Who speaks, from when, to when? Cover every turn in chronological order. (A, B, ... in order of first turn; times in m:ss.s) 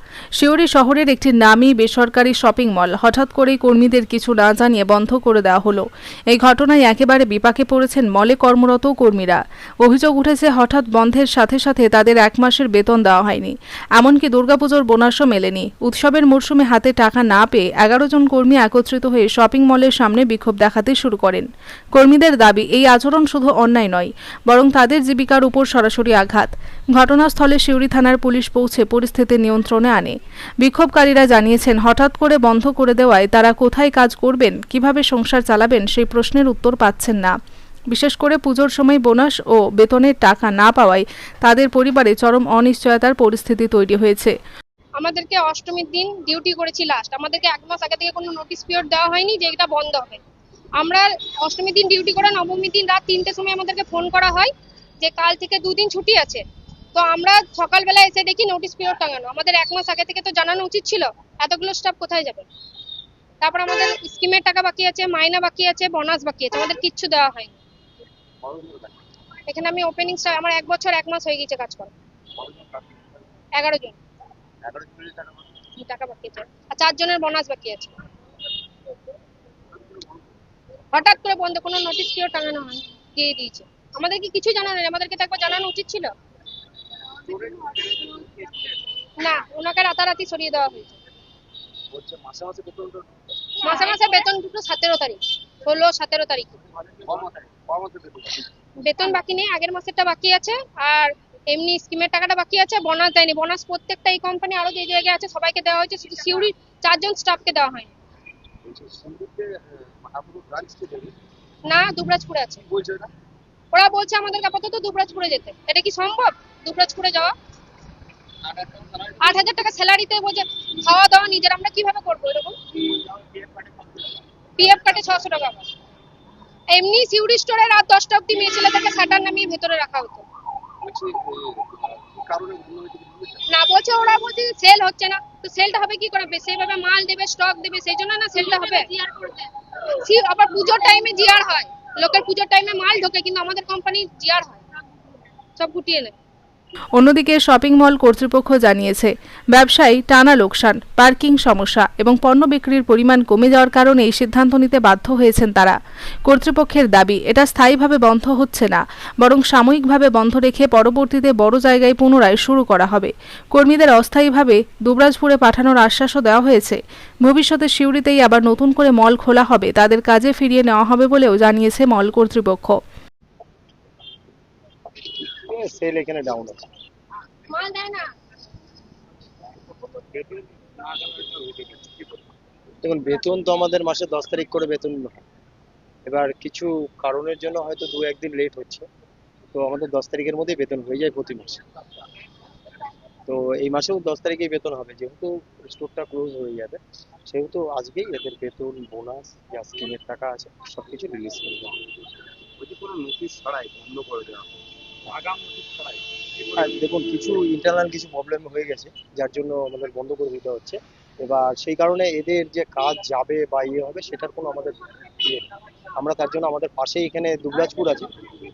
0:00.4-0:37.3 A
0:37.9-0:44.3 A
0:45.0-0:50.2 B
0:50.8-0:56.4 B
0:56.9-1:02.5 B
1:03.4-1:07.6 B
1:08.4-1:09.0 C
1:09.5-1:11.9 B
1:12.4-1:13.0 C
1:13.6-1:14.0 B
1:14.6-1:15.4 C
1:15.8-1:17.9 B
1:19.7-1:20.2 C
1:20.9-1:26.1 B
1:27.3-1:28.6 C
1:29.2-1:31.0 B
1:31.9-1:33.1 C
1:33.6-1:36.6 B
1:36.8-1:38.4 C
1:38.8-1:47.9 B
1:48.6-1:51.1 C
1:51.7-1:52.6 B
1:52.6-1:53.1 C
1:53.7-1:57.3 B
1:58.7-1:59.0 C
1:59.2-2:02.6 B
2:02.9-2:04.1 C
2:04.6-2:05.7 B
2:06.7-2:10.2 B
2:10.8-2:13.4 C
2:13.5-2:19.4 B
2:20.0-2:24.6 B
2:25.6-2:26.2 B
2:27.0-2:52.8 A
2:55.5-2:56.6 D
2:57.5-2:58.0 B
3:00.0-3:02.1 C
3:02.8-3:05.2 D
3:06.0-3:08.8 D
3:09.5-3:11.6 D
3:13.3-3:21.8 D
3:22.6-3:24.6 C
3:25.1-3:26.8 C
3:26.6-3:35.4 D
3:36.0-3:38.1 D